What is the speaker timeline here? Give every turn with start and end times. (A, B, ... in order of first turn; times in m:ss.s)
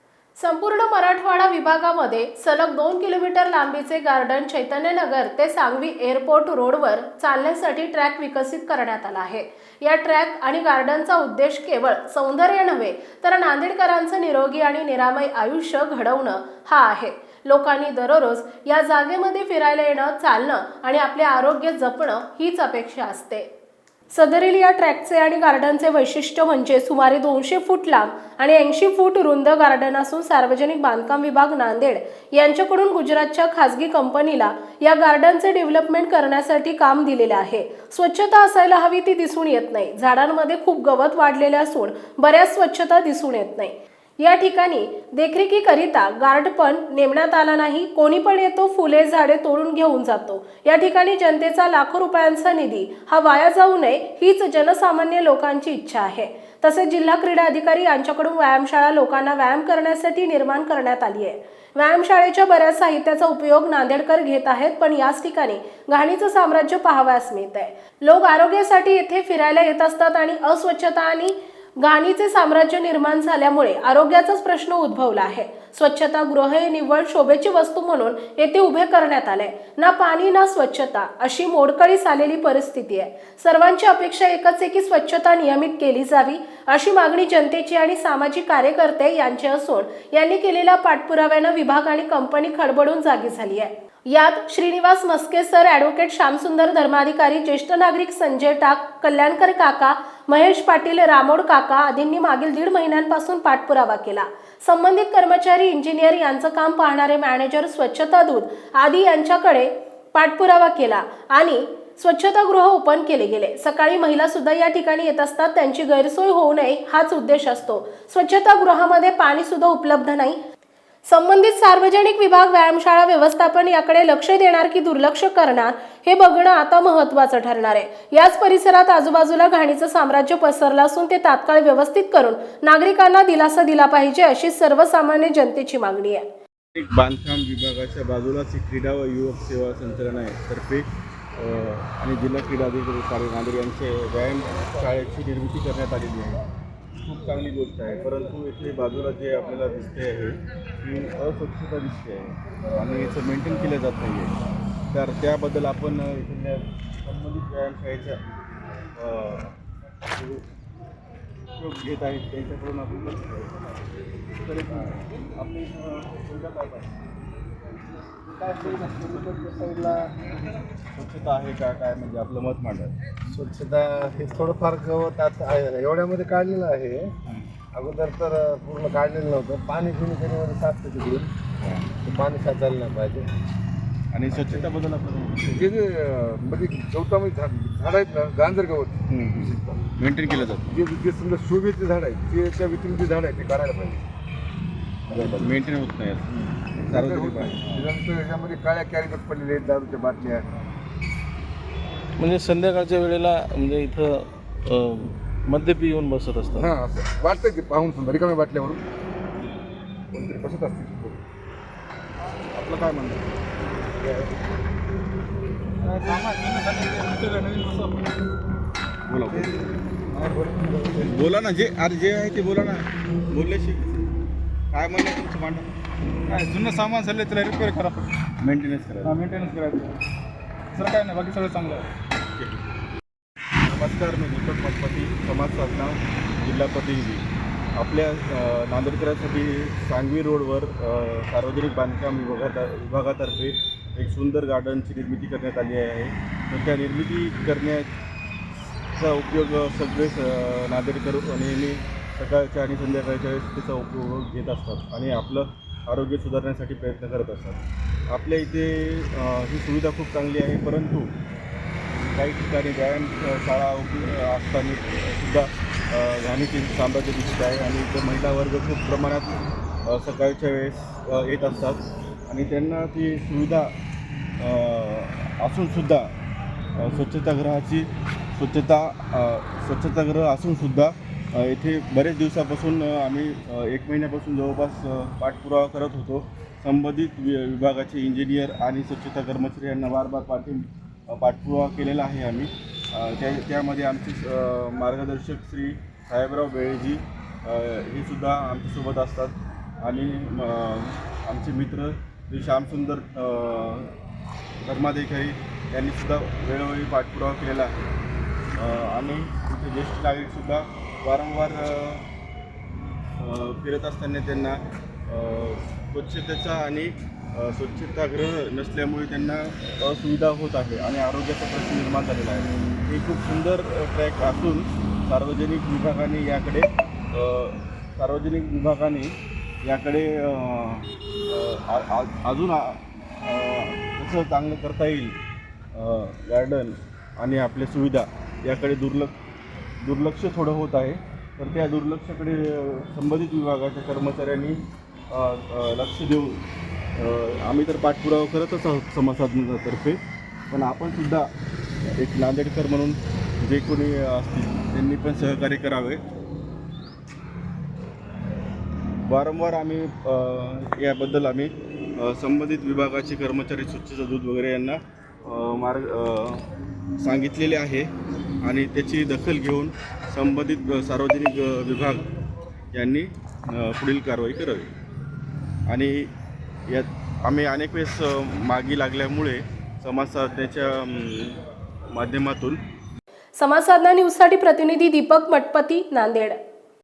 0:00.4-0:23.5 A
0:24.1-2:00.4 A
2:01.1-2:16.3 A
2:16.8-2:26.4 B
2:27.0-2:34.4 B
2:34.9-2:38.2 B
2:39.0-2:39.6 B
2:40.1-2:40.4 B
2:41.6-2:43.8 B
2:44.4-2:46.9 B
2:48.4-2:49.3 B
2:48.6-2:50.1 C
2:50.9-2:52.9 B
2:53.3-2:57.1 C
2:57.7-3:01.3 C
3:01.6-3:01.9 B
3:02.0-3:03.3 C
3:04.1-3:05.7 B
3:04.3-3:04.6 C
3:05.5-3:09.8 C
3:09.1-3:10.7 B
3:10.7-3:14.0 C
3:15.1-3:17.9 B
3:15.1-3:15.5 C
3:16.9-3:20.5 C
3:22.2-3:24.1 D
3:24.8-3:26.7 D
3:26.6-3:28.8 C
3:30.1-3:31.2 C
3:32.6-3:33.2 B
3:34.0-3:34.4 C
3:35.8-3:38.1 E
3:39.1-3:39.5 B
3:40.1-3:41.1 C
3:41.0-3:44.1 B
3:44.7-3:45.7 B
3:46.3-3:48.1 E
3:48.4-3:49.2 B
3:49.0-3:50.0 E
3:50.7-3:51.9 E
3:52.4-3:52.7 B
3:53.6-3:57.3 B
3:57.8-4:07.9 B
4:09.0-4:21.1 B
4:22.1-4:33.7 B
4:34.4-4:36.1 B
4:36.8-5:04.0 B
5:04.6-5:07.7 B
5:08.6-5:12.0 B
5:13.2-5:29.1 B
5:29.6-5:35.2 B
5:35.7-5:39.2 B
5:39.8-5:44.6 B
5:45.1-5:46.4 B
5:47.0-5:50.0 B
5:50.5-5:51.3 B
5:52.0-5:56.0 B
5:59.0-6:06.5 B
6:07.0-6:07.9 B
6:08.4-6:12.1 B
6:12.7-6:14.7 B
6:15.7-6:16.1 B
6:16.7-6:21.4 B
6:21.9-6:22.6 B
6:23.4-6:26.4 A